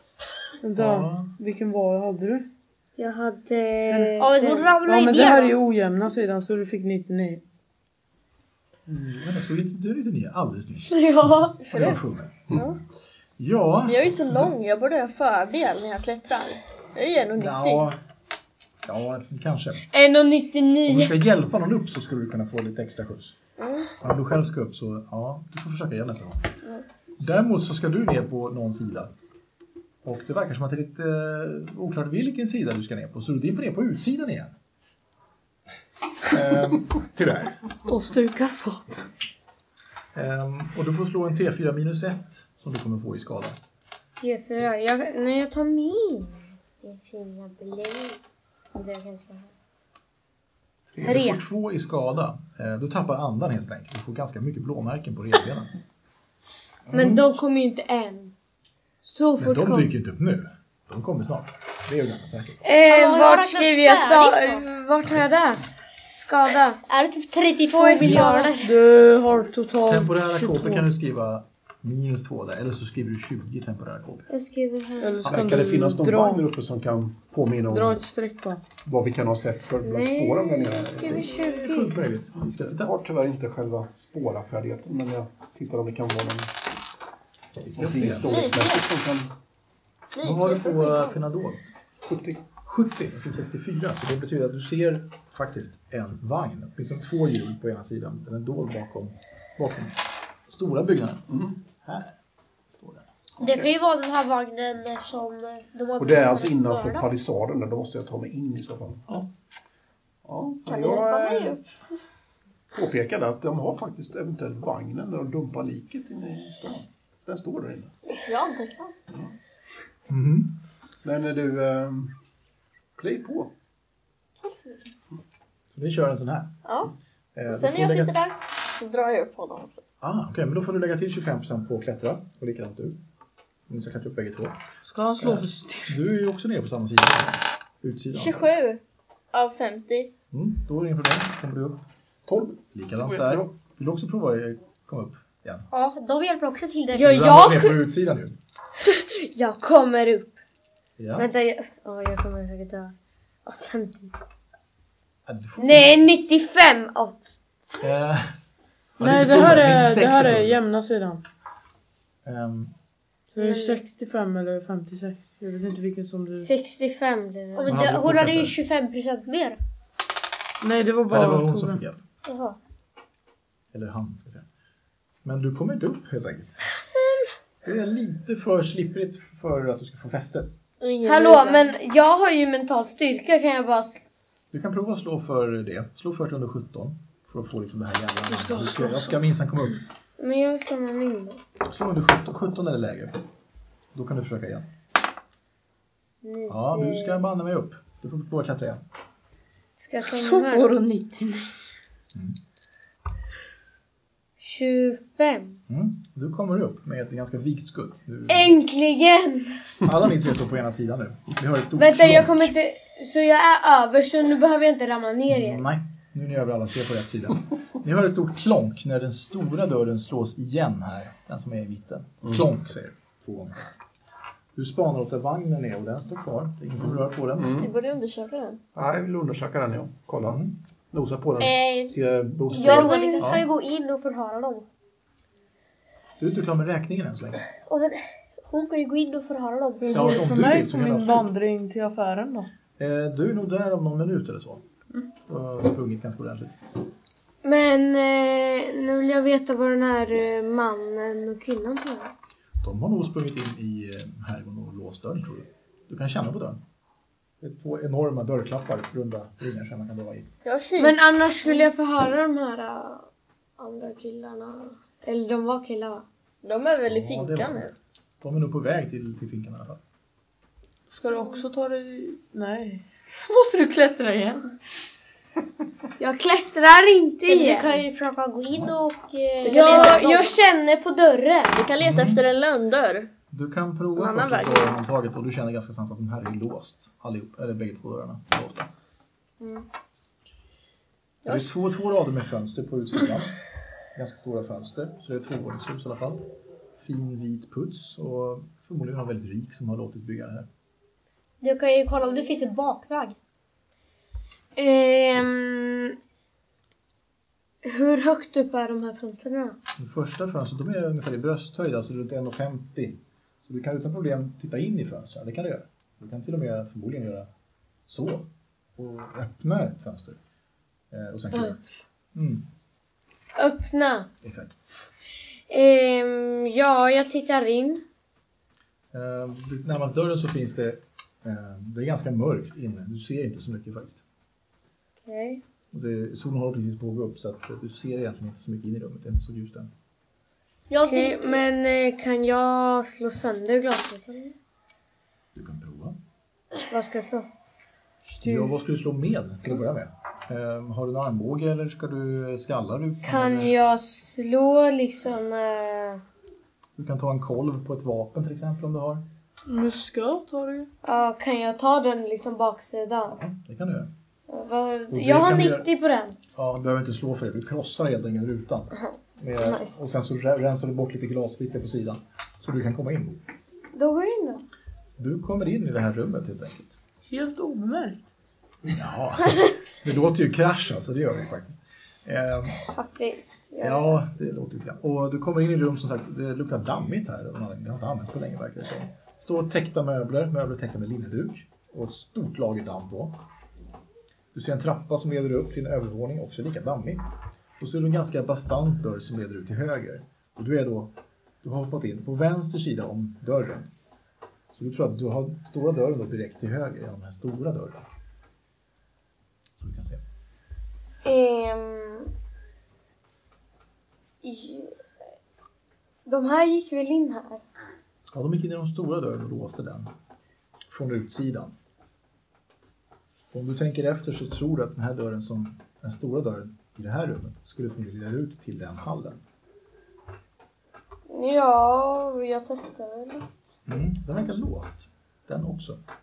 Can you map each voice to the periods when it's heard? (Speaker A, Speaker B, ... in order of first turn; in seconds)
Speaker A: 0.6-2.4, 3.9-4.2, 4.8-7.4, 37.8-39.0, 68.0-70.9, 75.0-76.5, 77.7-78.6, 134.8-136.0, 159.0-161.2, 163.3-166.5, 170.6-171.8, 188.3-189.2, 200.0-201.5, 239.8-242.5, 270.9-274.5, 348.2-348.5, 359.5-360.7, 377.1-378.1
Speaker B: 0.8-1.3, 8.9-12.6, 13.4-14.5, 17.4-18.0, 18.8-19.8, 20.9-23.4, 24.0-26.5, 27.2-29.1, 30.0-34.5, 36.2-37.5, 40.1-43.6, 50.9-55.7, 56.9-57.2, 59.4-62.6, 69.8-74.3, 81.1-82.9, 87.6-88.3, 90.2-91.7, 92.6-102.2, 102.7-103.1, 120.1-120.5, 125.7-126.5, 127.3-128.1, 130.0-133.0, 133.7-134.6, 135.2-138.5, 140.3-145.7, 147.0-148.3, 151.0-151.3, 155.2-155.8, 157.8-158.3, 159.0-160.6, 162.2-162.7, 167.7-168.6, 171.1-172.0, 173.7-174.4, 175.2-176.6, 177.6-180.5, 184.5-189.8, 191.6-193.1, 193.9-194.7, 196.5-198.8, 205.7-208.5, 209.8-212.5, 215.3-223.8, 224.5-227.6, 230.2-230.5, 232.6-233.4, 236.2-237.4, 239.9-241.3, 242.8-244.6, 245.3-246.6, 252.6-256.6, 257.4-260.3, 266.9-269.8, 281.8-282.2, 283.3-288.7, 291.2-293.3, 293.9-296.2, 296.8-300.5, 309.8-317.3, 317.9-320.2, 320.9-321.6, 322.1-322.4, 324.2-324.5, 328.9-334.0, 335.7-339.7, 345.3-346.0, 348.2-353.5, 356.8-359.0, 363.1-363.9, 364.9-365.7, 366.3-373.2, 375.0-376.8, 378.7-382.6, 383.6-393.2, 394.3-397.0, 397.6-403.7, 404.5-407.8, 409.6-410.0, 418.1-419.9, 420.7-421.5, 423.3-429.2, 433.7-435.8
Speaker C: 3.0-4.7, 10.9-11.6, 19.9-21.1, 44.2-48.2, 48.7-49.5, 51.0-51.4, 56.9-58.3, 59.0-59.9, 62.6-65.6, 66.2-66.8, 67.7-68.5, 74.3-75.3, 79.8-81.9, 146.9-147.8, 148.8-150.3, 151.2-152.9, 153.4-154.1, 155.6-157.2, 163.4-163.8, 166.3-167.8, 181.0-184.0, 190.2-191.4, 196.2-197.2, 199.8-200.7, 204.4-205.6, 208.3-209.6, 211.8-215.6, 232.8-233.2, 247.4-252.1, 260.8-263.1, 263.6-266.0, 276.0-277.8, 279.4-281.6, 289.4-289.6, 304.6-305.9, 307.6-309.6, 323.4-324.1, 325.5-327.8, 335.0-335.4, 340.8-344.3, 346.6-347.3, 353.0-356.0, 360.8-363.2, 364.3-366.2, 369.4-369.7, 373.7-374.4, 382.6-384.0, 411.0-412.1, 414.2-414.7, 416.1-417.4, 431.1-433.3
Speaker D: 4.2-5.5, 62.9-64.6, 66.9-68.7, 103.4-107.1, 145.7-147.2, 167.6-169.6, 172.3-172.6, 231.4-232.0, 232.5-234.7, 237.7-240.2, 277.3-280.4, 301.4-303.1, 340.7-341.4
Speaker E: 11.6-12.0, 12.5-12.8, 13.8-17.9, 23.6-23.9, 88.2-88.8, 90.1-91.2, 110.7-111.6, 118.2-118.9, 124.4-124.8, 126.6-126.9, 127.5-129.8, 138.1-138.8, 139.3-140.1, 180.8-181.6, 227.6-228.6, 260.4-261.0, 266.4-267.7, 279.4-280.1, 281.5-283.1, 283.9-284.7, 291.2-291.5
Speaker F: 75.3-78.0, 78.8-81.3, 82.7-86.5, 87.8-89.3, 92.1-92.4, 101.3-101.5, 106.0-109.2, 110.2-111.6, 112.7-117.9, 121.0-122.1, 123.0-123.5, 143.0-143.5, 227.4-227.7, 228.7-230.4, 230.9-232.9